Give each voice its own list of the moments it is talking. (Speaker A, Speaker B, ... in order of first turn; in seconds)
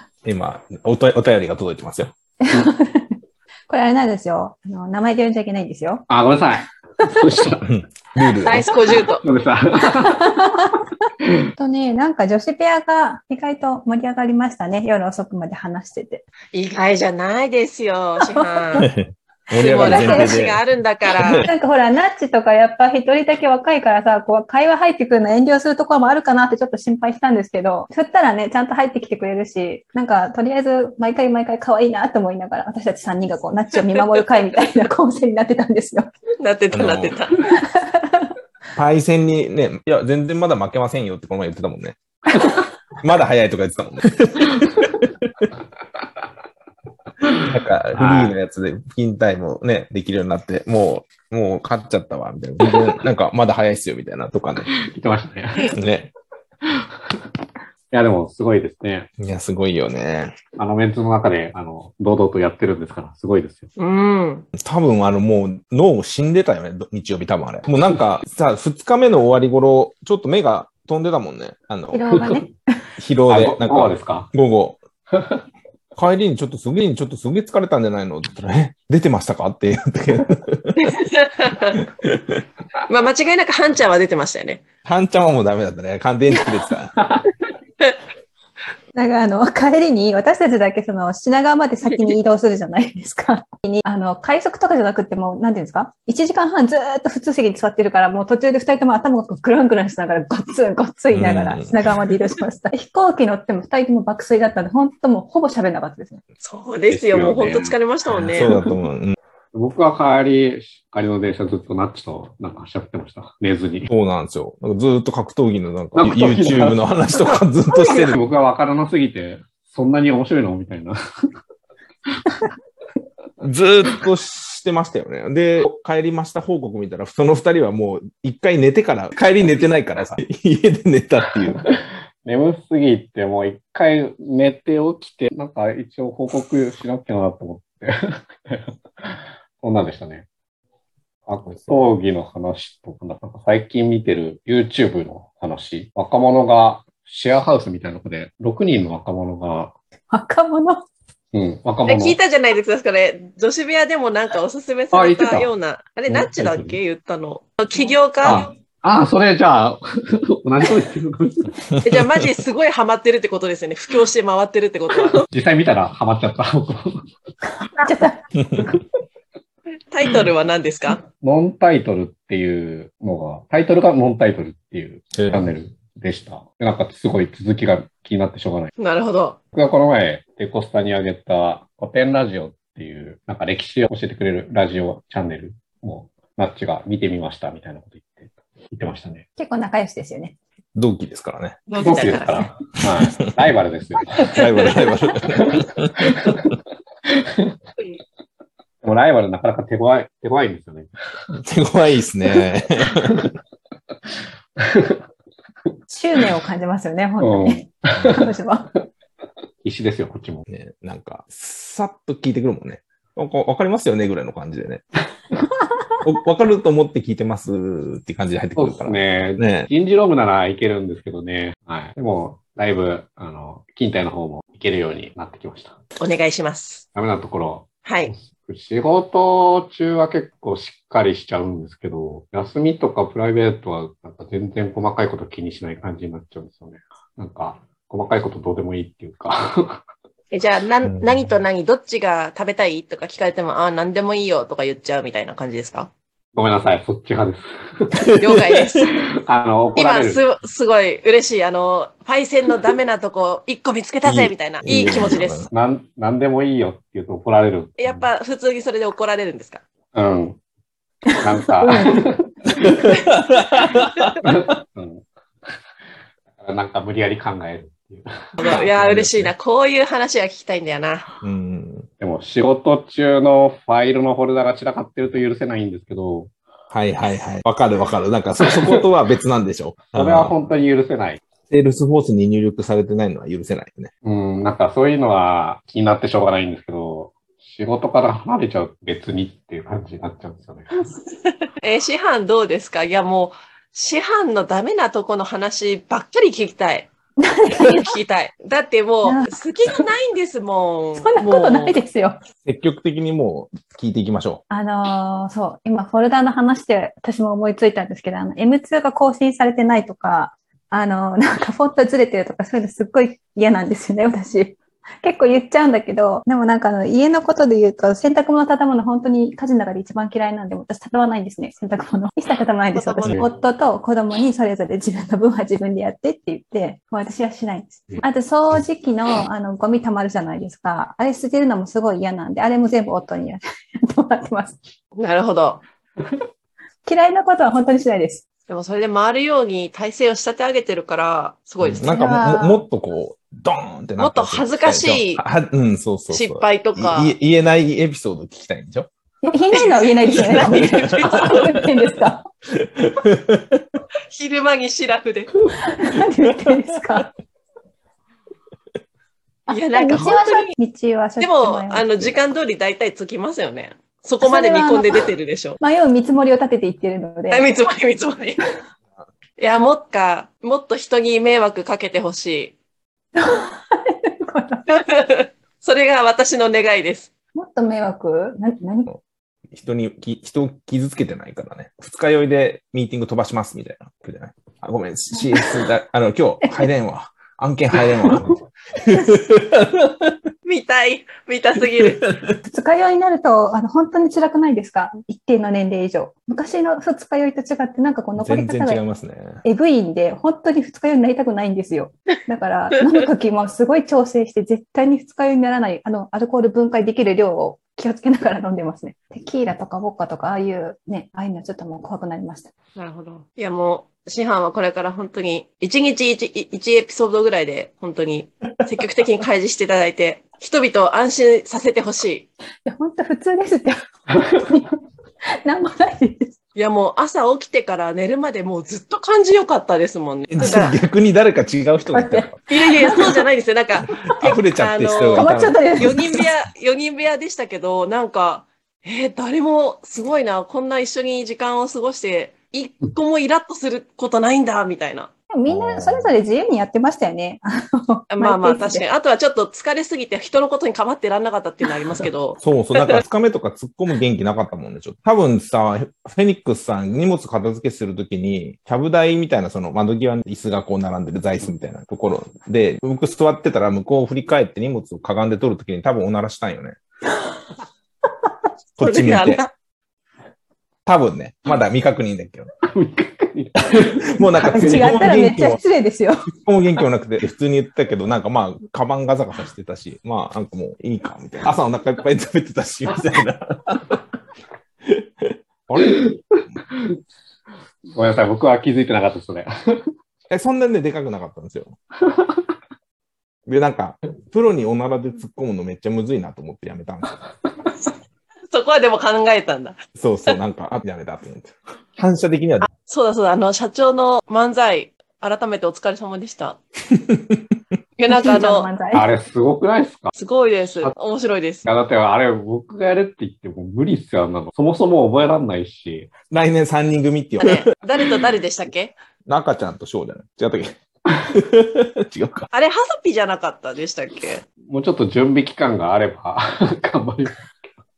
Speaker A: 0.2-2.1, 7.7-9.0, 18.8-20.6, 21.1-21.5, 36.7-37.2, 38.8-42.0, 43.0-45.5, 47.4-54.7, 55.7-56.1, 59.2-60.4, 64.5-72.2, 73.0-74.8, 76.0-81.0, 81.8-82.4, 84.8-87.0, 101.1-101.7, 108.2-109.2, 113.9-118.2, 123.4-131.7, 141.5-141.8, 161.7-162.3, 168.4-168.7, 175.2-175.5, 190.8-191.6, 193.0-193.3, 194.2-196.3, 201.4-203.3, 210.5-214.8, 216.0-219.7, 240.8-241.3, 248.0-248.8, 254.1-255.5, 262.6-264.3, 268.4-269.3, 271.2-271.9, 276.7-280.4, 281.5-283.9, 302.4-304.4, 341.6-348.9, 350.1-351.6, 352.6-353.8, 379.5-390.2, 391.8-392.3, 398.2-399.4, 430.3-432.4, 434.0-436.3, 445.5-446.2, 452.4-466.8, 468.8-469.4, 470.9-472.5, 473.6-475.6, 476.3-484.0, 484.8-486.1, 490.3-491.8, 493.5-497.2, 500.0-502.7, 506.9-507.5, 516.3-518.1, 519.3-522.5
Speaker B: 2.4-3.2, 3.7-6.0, 9.9-10.9, 11.6-16.2, 18.2-18.9, 19.6-20.4, 21.4-36.1, 37.4-38.3, 71.9-72.6, 89.0-106.2, 150.1-150.9, 167.6-168.2, 189.4-190.4, 205.9-208.7, 261.1-262.0, 297.2-298.0, 299.0-299.4, 301.0-302.2, 304.5-334.6, 336.9-338.2, 341.8-342.6, 349.2-352.3, 355.6-357.1, 359.5-362.1, 364.2-365.1, 365.6-367.5, 373.1-374.7, 377.4-378.9, 392.4-398.8, 399.4-412.5, 422.6-424.7, 425.4-426.3, 430.4-430.7, 431.9-433.2, 435.1-436.2, 445.3-448.9, 474.4-476.3, 508.1-509.1
Speaker C: 6.1-7.7, 9.1-10.7, 11.2-11.5, 47.2-48.4, 54.7-55.8, 56.6-57.2, 57.9-59.1, 60.6-63.7, 73.3-74.3, 75.1-75.4, 106.9-108.8, 109.5-113.9, 116.0-116.8, 117.9-121.3, 131.6-140.3, 141.3-149.8, 151.3-152.2, 154.9-155.5, 156.1-156.8, 158.2-161.6, 165.2-167.0, 171.0-178.7, 179.5-189.3, 191.8-194.4, 195.3-196.6, 197.1-197.6, 198.8-200.9, 202.8-203.3, 204.6-205.0, 207.2-208.3, 209.6-210.4, 218.6-225.8, 226.9-239.8, 246.3-248.1, 249.1-250.2, 255.5-258.1, 259.9-260.4, 261.2-262.7, 264.2-265.0, 266.4-268.7, 272.0-276.3, 278.4-278.8, 279.9-281.2, 284.0-290.8, 472.6-474.9, 485.8-486.2, 486.7-487.0, 487.9-489.9, 492.1-492.4, 508.9-510.1, 511.6-516.1, 524.7-527.5
Speaker D: 8.4-9.2, 16.5-18.9, 19.6-21.5, 36.4-37.5, 63.8-64.5, 80.8-81.8, 82.9-84.6, 106.4-108.5, 151.9-158.5, 161.8-165.2, 169.9-171.0, 178.8-179.4, 191.7-192.5, 226.0-226.8, 227.9-228.1, 240.3-245.9, 248.2-249.0, 249.8-255.4, 257.8-259.6, 263.8-264.1, 268.4-271.1, 291.6-296.9, 297.6-301.8, 322.7-323.2, 335.0-335.6, 338.5-342.0, 344.0-345.2, 346.1-347.2, 349.5-351.5, 354.1-355.3, 359.5-360.5, 361.2-365.6, 367.3-368.5, 369.4-372.6, 374.7-377.1, 390.4-392.1, 412.8-422.3, 426.6-430.8, 432.5-445.1, 448.1-453.0, 468.8-469.5, 498.5-499.8, 502.6-506.6, 508.0-508.7, 510.2-511.7, 517.4-519.0, 522.5-524.4